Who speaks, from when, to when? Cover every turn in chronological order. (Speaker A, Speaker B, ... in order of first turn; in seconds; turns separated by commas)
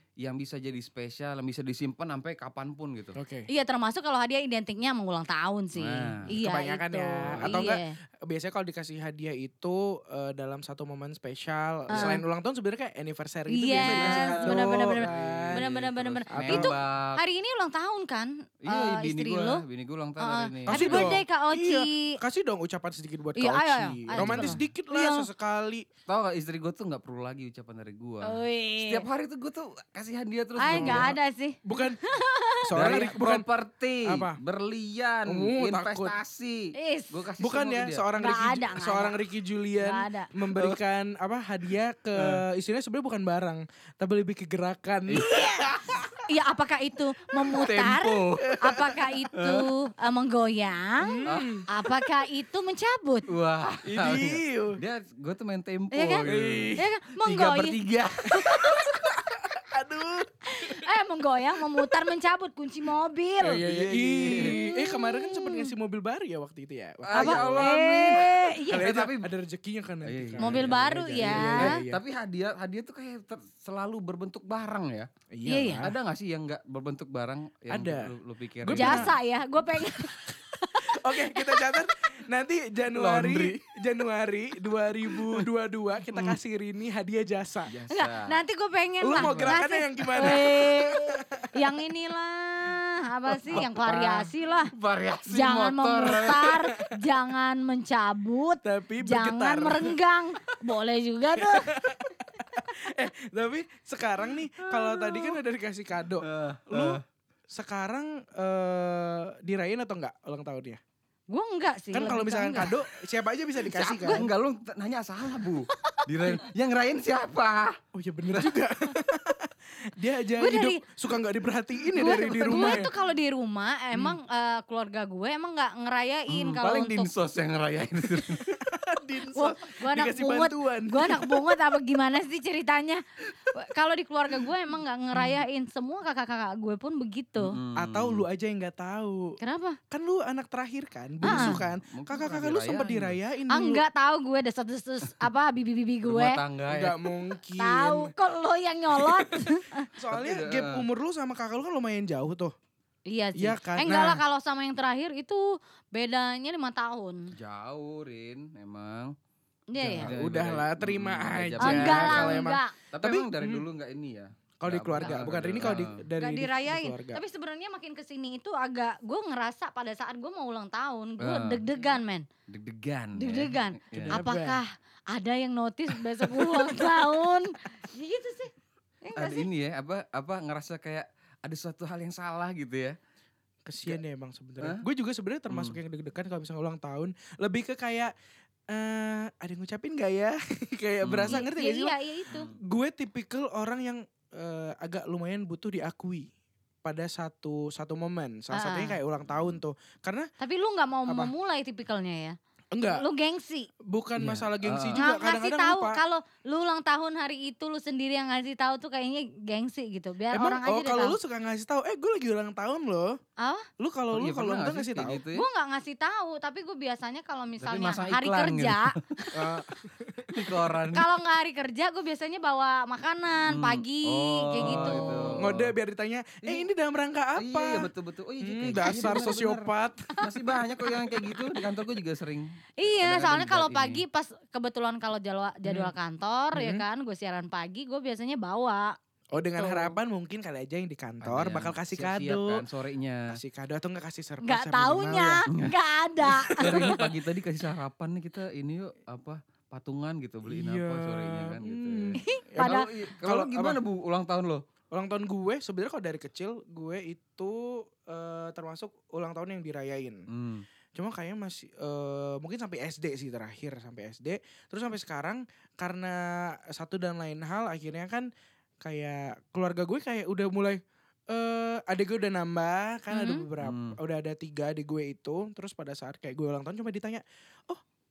Speaker A: 0.2-3.2, Speaker B: 3.2-3.5, Speaker C: 3.5-8.0, Speaker A: 5.8-6.3, Speaker B: 6.3-15.6, Speaker A: 7.3-7.7, Speaker C: 11.9-12.2, Speaker C: 13.5-19.6, Speaker A: 13.7-17.2, Speaker B: 16.3-16.8, Speaker A: 18.6-21.2, Speaker C: 20.2-22.2, Speaker B: 20.7-25.9, Speaker C: 23.4-25.3, Speaker A: 24.2-24.5, Speaker A: 26.1-31.1, Speaker C: 28.2-29.1, Speaker C: 30.6-32.8, Speaker B: 30.7-32.0, Speaker B: 32.7-33.5, Speaker A: 32.8-38.0, Speaker B: 34.0-34.4, Speaker B: 35.3-36.2, Speaker C: 36.8-37.1, Speaker B: 37.4-46.2, Speaker C: 38.2-39.2, Speaker C: 39.8-40.3, Speaker A: 40.5-40.8, Speaker A: 42.2-42.4, Speaker A: 45.1-45.4, Speaker C: 45.3-45.7, Speaker C: 46.3-53.3, Speaker A: 47.6-48.6, Speaker B: 48.4-49.0, Speaker A: 49.3-49.7, Speaker B: 51.0-51.7, Speaker A: 51.3-51.6, Speaker A: 53.3-59.2, Speaker B: 53.8-54.8, Speaker C: 55.9-57.8, Speaker B: 56.3-56.9, Speaker B: 58.3-60.9, Speaker C: 60.5-63.6, Speaker B: 63.4-67.8, Speaker A: 63.6-64.6, Speaker C: 64.4-65.7, Speaker A: 67.1-69.3, Speaker C: 67.2-68.9, Speaker B: 68.7-72.0, Speaker A: 70.0-75.1, Speaker C: 70.4-71.8, Speaker B: 75.3-76.0, Speaker C: 75.5-75.9, Speaker A: 75.8-79.1, Speaker B: 77.7-79.2, Speaker C: 78.8-81.6, Speaker B: 79.8-87.7, Speaker A: 82.9-83.6, Speaker A: 85.1-85.5, Speaker A: 86.1-86.4, Speaker A: 87.7-88.4, Speaker C: 87.9-94.7, Speaker B: 89.0-91.5, Speaker A: 89.1-89.6, Speaker A: 93.5-94.0, Speaker B: 93.8-94.3, Speaker A: 94.7-96.6, Speaker C: 95.3-101.8, Speaker B: 98.6-100.0, Speaker B: 101.4-110.8, Speaker C: 104.8-105.3, Speaker A: 106.2-107.0, Speaker C: 111.3-112.8, Speaker B: 111.9-114.2, Speaker C: 113.6-114.3, Speaker A: 114.1-117.8, Speaker C: 115.8-116.1, Speaker B: 117.9-122.9, Speaker A: 118.3-118.6, Speaker C: 120.4-120.8, Speaker C: 122.0-127.1, Speaker A: 122.2-122.9, Speaker A: 126.3-128.6, Speaker B: 128.6-131.5, Speaker C: 129.3-137.6, Speaker A: 137.4-138.2, Speaker B: 137.8-139.4, Speaker C: 139.4-139.8, Speaker B: 139.9-143.8, Speaker C: 141.2-141.6, Speaker A: 141.2-143.2, Speaker C: 143.5-146.4, Speaker A: 146.1-147.0, Speaker B: 146.7-148.1, Speaker C: 147.6-149.9, Speaker B: 149.0-152.5, Speaker A: 150.1-150.8, Speaker C: 153.1-157.3, Speaker B: 153.4-154.2, Speaker A: 157.3-159.2, Speaker C: 159.7-160.1, Speaker A: 159.8-166.0, Speaker B: 159.9-163.7, Speaker C: 161.6-162.8, Speaker B: 164.6-167.2, Speaker C: 166.2-172.3, Speaker A: 171.2-171.7, Speaker A: 172.5-174.2, Speaker C: 173.2-178.5, Speaker B: 174.1-174.6, Speaker A: 176.3-176.9, Speaker C: 179.0-179.5, Speaker A: 179.2-183.0, Speaker B: 183.7-188.1, Speaker A: 185.5-185.8, Speaker B: 188.7-191.9, Speaker A: 191.0-191.4, Speaker C: 191.3-192.5, Speaker A: 192.3-192.6, Speaker B: 192.6-196.3, Speaker B: 196.8-200.3, Speaker C: 198.5-199.0, Speaker C: 200.4-203.7, Speaker B: 201.1-201.3, Speaker B: 202.7-203.1, Speaker B: 203.8-206.0, Speaker A: 204.2-205.0, Speaker C: 205.0-211.2, Speaker B: 210.3-213.2, Speaker C: 213.4-213.7, Speaker B: 213.8-215.2, Speaker A: 214.1-215.4, Speaker C: 215.3-219.5, Speaker A: 217.6-219.0, Speaker B: 219.3-220.4, Speaker A: 220.3-221.1, Speaker C: 220.9-225.4, Speaker A: 223.5-225.7, Speaker B: 224.6-227.9, Speaker A: 226.4-226.7, Speaker A: 227.4-234.0, Speaker B: 228.4-230.2, Speaker C: 231.1-231.5, Speaker C: 232.8-239.0, Speaker B: 239.3-242.6, Speaker C: 239.6-240.0, Speaker A: 241.2-243.3, Speaker B: 243.3-245.4, Speaker C: 244.4-247.0, Speaker B: 246.3-247.1, Speaker A: 246.6-254.6, Speaker B: 250.5-253.8, Speaker C: 252.2-252.9, Speaker B: 254.9-260.2, Speaker A: 260.3-260.6, Speaker B: 260.9-268.3, Speaker B: 268.8-277.8, Speaker C: 273.1-273.5, Speaker A: 273.6-274.0